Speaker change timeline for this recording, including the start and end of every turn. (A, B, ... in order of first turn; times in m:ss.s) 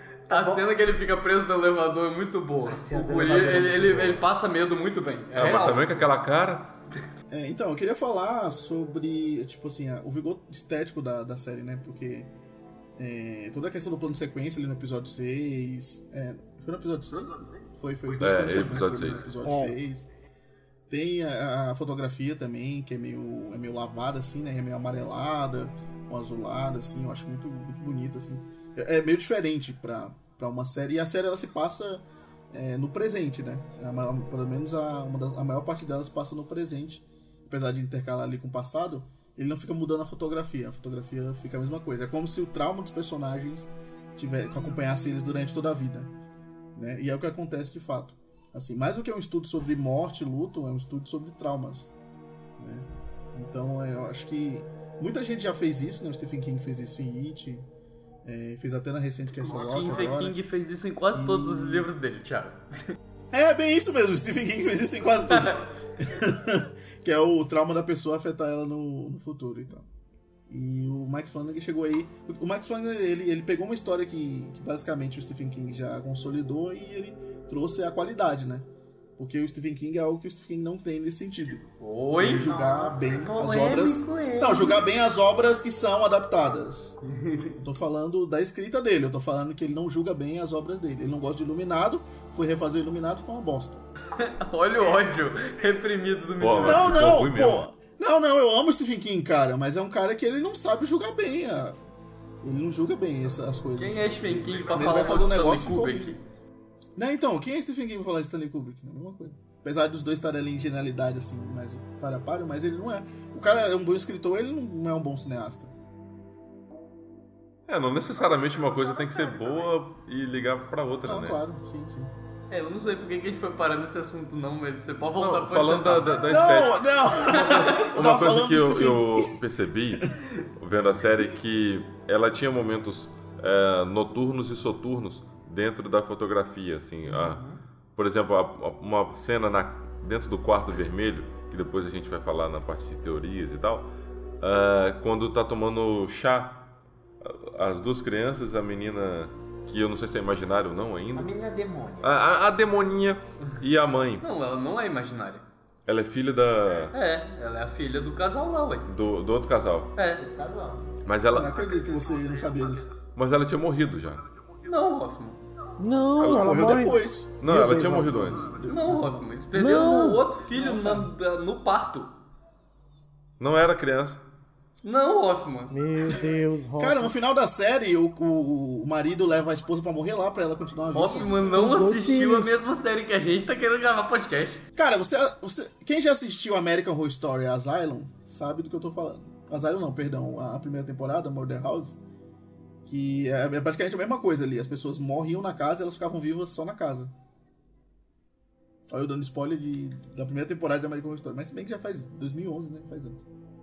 0:00.3-0:06.0 A
0:00.3-0:00.6 B
0:02.6-0:04.2 B
0:05.4-0:06.7 C
0:07.3-0:12.3 D
0:13.0-0:20.1 D
0:18.2-0:19.3 C
0:19.4-0:19.7 E
0:20.9-0:46.1 D
0:46.8-0:52.0 D
0:52.6-0:57.7 D
0:58.2-1:00.4 D
0:59.4-1:02.6 A
1:01.1-1:01.9 D
1:03.3-1:09.9 D
1:05.3-1:05.6 A
1:10.5-1:21.6 D
1:21.8-1:22.5 A
1:22.2-1:27.0 D
1:22.3-1:23.3 B
1:23.3-1:24.8 A
1:27.1-1:27.5 A
1:27.5-1:33.8 D
1:34.2-1:37.2 A
1:36.4-1:37.6 C
1:36.6-1:41.8 D
1:42.4-1:46.2 D
1:43.8-1:46.2 A
1:47.0-1:55.7 D
1:57.7-2:01.4 C
2:01.0-2:02.2 D
2:02.5-2:06.2 A
2:05.2-2:10.1 C
2:06.3-2:09.4 D
2:07.3-2:07.9 A
2:10.6-2:17.4 C
2:17.1-2:17.6 B
2:18.0-2:23.9 C
2:24.4-2:26.7 C
2:27.2-2:31.3 C
2:31.1-2:32.2 B
2:32.0-2:34.3 C
2:34.2-2:35.5 A
2:35.9-2:37.0 C
2:36.9-2:38.9 A
2:38.8-2:39.9 C
2:40.0-2:40.2 A
2:40.2-2:40.9 B
2:41.0-2:41.6 C
2:41.3-2:42.9 D
2:43.2-2:44.2 C
2:44.6-2:45.4 A
2:45.8-2:48.4 E
2:46.2-2:49.3 D
2:47.4-2:48.6 C
2:48.7-2:52.1 A
2:49.5-2:50.2 E
2:50.5-2:51.1 D
2:53.4-2:54.2 C
2:54.8-2:55.7 A
2:55.7-2:57.1 E
2:56.8-3:01.5 D
3:00.9-3:04.6 A
3:01.0-3:01.6 B
3:01.5-3:02.5 E
3:04.8-3:12.0 D
3:12.9-3:17.1 D
3:18.9-3:23.2 D